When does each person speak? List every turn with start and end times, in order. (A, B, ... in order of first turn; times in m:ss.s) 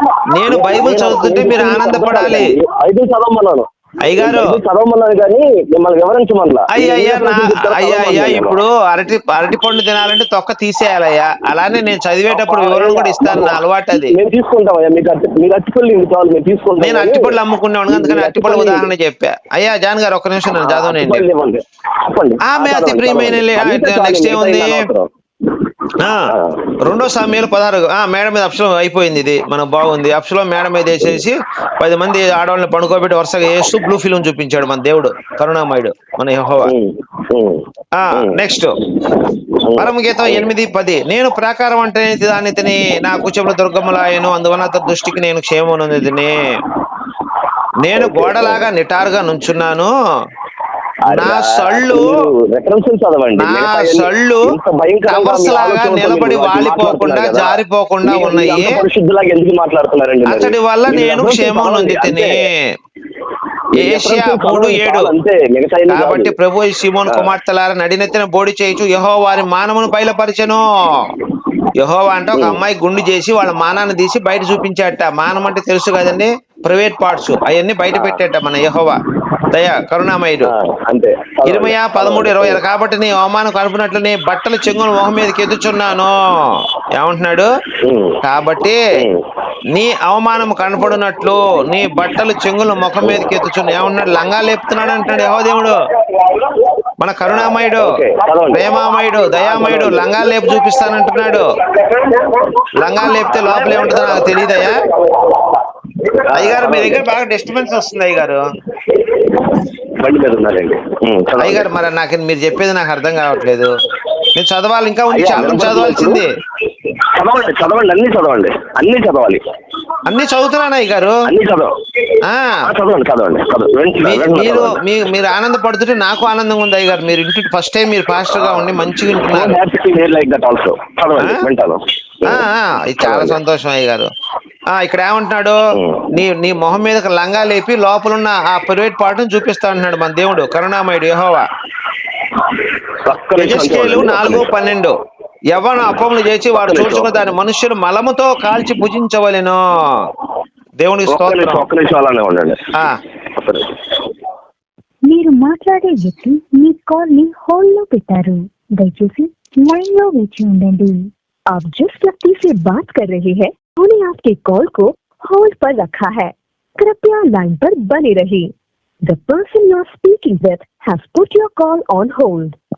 0:00.3-0:02.5 A
0:00.5-0:08.6 B
0:04.0-0:04.6 A
0:06.7-0:14.2 A
0:12.3-0:17.4 B
0:16.8-0:21.3 A
0:17.9-0:18.9 B
0:20.6-0:25.1 B
0:22.5-0:24.8 A
0:26.0-0:26.2 A
0:26.3-0:26.8 B
0:26.8-0:36.7 A
0:36.6-0:38.4 B
0:38.0-0:38.7 A
0:39.0-0:40.5 B
0:39.8-0:46.4 A
0:47.8-0:49.9 A
0:48.0-0:48.7 B
0:51.1-1:02.3 B
0:51.1-0:52.1 A
0:53.4-0:54.5 A
0:55.0-0:58.7 A
1:00.2-1:02.6 A
1:03.8-1:05.1 A
1:03.8-1:06.4 B
1:05.9-1:11.1 A
1:11.8-1:19.0 A
1:12.3-1:12.6 B
1:17.9-1:18.2 B
1:19.5-1:20.5 A
1:20.4-1:22.6 B
1:21.4-1:27.5 A
1:27.8-1:28.2 B
1:28.2-1:28.8 A
1:29.7-1:35.8 A
1:33.0-1:33.3 B
1:37.0-1:37.9 A
1:37.3-1:38.7 B
1:38.5-1:41.5 A
1:39.4-1:40.4 B
1:42.8-1:44.8 A
1:43.3-1:44.6 B
1:46.1-1:47.0 B
1:46.3-1:48.4 A
1:48.9-1:51.7 B
1:51.4-1:53.7 A
1:54.3-1:56.3 A
1:55.1-1:56.2 B
1:56.8-1:59.4 B
2:00.0-2:01.2 A
2:01.3-2:01.7 B
2:02.2-2:02.6 A
2:02.6-2:04.8 B
2:04.0-2:09.6 A
2:08.4-2:08.7 B
2:09.2-2:12.4 B
2:12.2-2:14.1 A
2:13.0-2:13.4 B
2:14.7-2:15.6 A
2:15.7-2:16.1 B
2:16.1-2:21.4 A
2:23.0-2:24.5 B
2:23.4-2:24.9 A
2:25.5-2:30.1 A
2:26.5-2:27.3 B
2:30.8-2:31.7 A
2:31.1-2:32.6 B
2:33.3-2:33.7 B
2:35.1-2:48.5 C
2:49.0-2:52.6 C